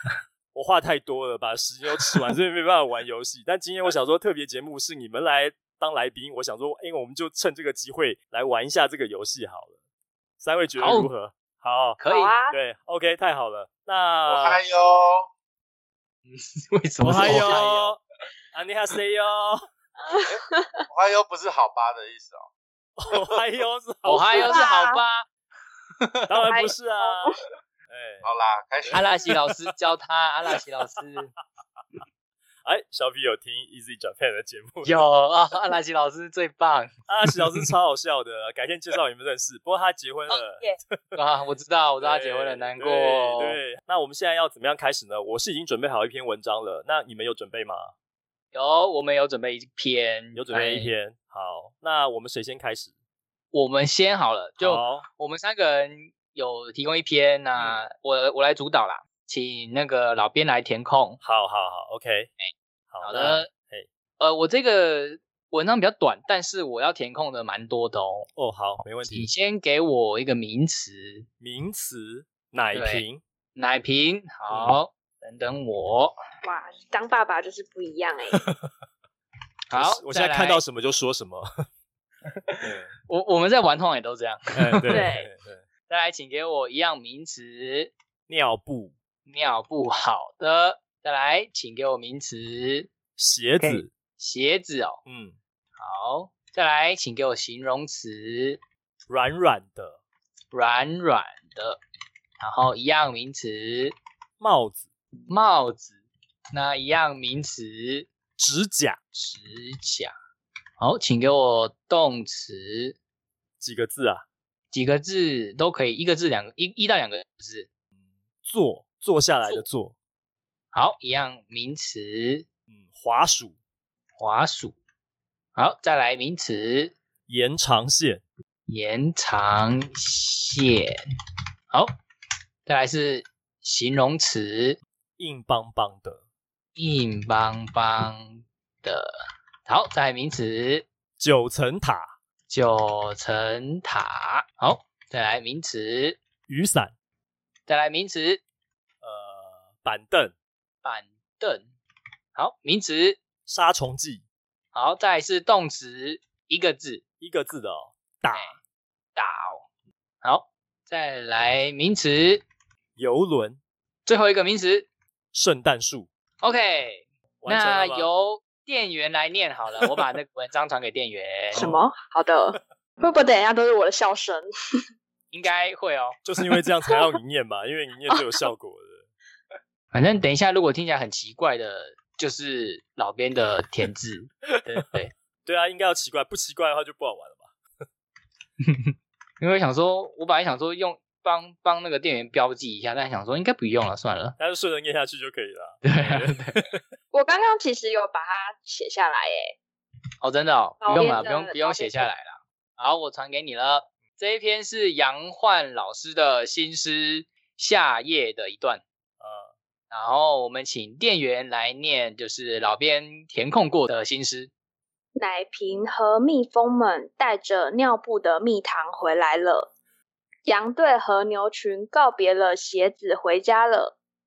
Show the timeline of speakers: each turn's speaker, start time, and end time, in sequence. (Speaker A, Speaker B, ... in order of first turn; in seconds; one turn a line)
Speaker A: 0.5-9.8
Speaker A: 10.4-14.6
Speaker B: 10.8-11.1
Speaker B: 12.0-12.3
Speaker C: 12.1-12.6
Speaker D: 14.3-15.3
Speaker B: 16.3-18.0
Speaker A: 17.0-18.0
Speaker A: 18.5-19.6
Speaker C: 20.0-20.8
Speaker D: 20.9-22.5
Speaker A: 23.0-24.7
Speaker B: 24.1-25.3
Speaker C: 24.4-25.0
Speaker B: 26.0-26.5
Speaker A: 26.3-27.4
Speaker C: 26.5-27.3
Speaker A: 27.9-28.3
Speaker D: 28.2-29.1
Speaker A: 28.8-29.1
Speaker B: 28.9-31.3
Speaker A: 32.6-35.0
Speaker B: 34.8-37.6
Speaker A: 37.1-41.2
Speaker B: 41.1-43.6
Speaker A: 42.0-47.9
Speaker B: 48.5-50.9
Speaker A: 50.4-52.9
Speaker B: 53.5-61.2
Speaker A: 54.6-55.1
Speaker A: 61.2-62.3
Speaker A: 62.9-63.9
Speaker B: 63.0-63.5
Speaker B: 64.2-68.3
Speaker A: 68.4-69.3
Speaker B: 69.1-71.3
Speaker A: 71.4-73.2
Speaker B: 72.7-76.2
Speaker A: 74.5-74.8
Speaker C: 76.4-78.4
Speaker A: 78.4-78.7
Speaker B: 79.7-80.6
Speaker A: 79.7-81.5
Speaker A: 82.6-82.9
Speaker B: 83.1-85.1
Speaker A: 84.5-85.6
Speaker C: 84.9-85.3
Speaker B: 85.9-87.9
Speaker A: 88.3-89.0
Speaker B: 89.3-92.9
Speaker A: 93.2-93.9
Speaker B: 93.6-95.0
Speaker A: 95.1-95.4
Speaker B: 95.8-98.6
Speaker A: 99.1-100.0
Speaker B: 100.5-101.8
Speaker B: 102.4-104.0
Speaker A: 104.4-104.8
Speaker B: 105.3-106.0
Speaker B: 106.5-108.1
Speaker A: 108.4-109.0
Speaker B: 109.1-110.1
Speaker B: 110.8-113.0
Speaker A: 113.6-114.2
Speaker B: 114.7-117.7
Speaker A: 118.4-120.0
Speaker B: 120.7-122.5
Speaker A: 122.7-123.6
Speaker B: 124.2-124.8
Speaker B: 125.5-126.9
Speaker A: 127.3-128.2
Speaker B: 128.7-131.0
Speaker B: 132.7-134.8
Speaker A: 135.2-136.2
Speaker B: 136.8-139.1
Speaker B: 139.7-140.8
Speaker A: 141.2-142.1
Speaker B: 142.5-146.2
Speaker A: 146.5-146.9
Speaker B: 147.7-148.4
Speaker A: 149.0-150.3
Speaker B: 150.8-151.7
Speaker B: 152.3-153.2
Speaker A: 153.5-154.2
Speaker B: 154.7-157.0
Speaker A: 157.2-158.5
Speaker B: 158.3-158.6
Speaker B: 159.2-159.7
Speaker B: 160.2-162.4
Speaker A: 163.0-163.6
Speaker B: 164.1-164.9
Speaker A: 165.3-166.1
Speaker B: 166.4-171.8
Speaker A: 167.4-168.1
Speaker C: 171.6-174.5
Speaker B: 175.3-176.2
Speaker A: 176.2-179.1
Speaker B: 179.9-185.1
Speaker A: 185.4-187.5
Speaker B: 188.7-194.4
Speaker A: 194.4-196.8
Speaker B: 195.8-196.6
Speaker C: 197.1-199.6
Speaker B: 200.2-208.8
Speaker C: 200.8-202.1
Speaker A: 209.2-209.5
Speaker B: 209.9-214.5
Speaker C: 215.2-219.7
Speaker C: 220.5-224.0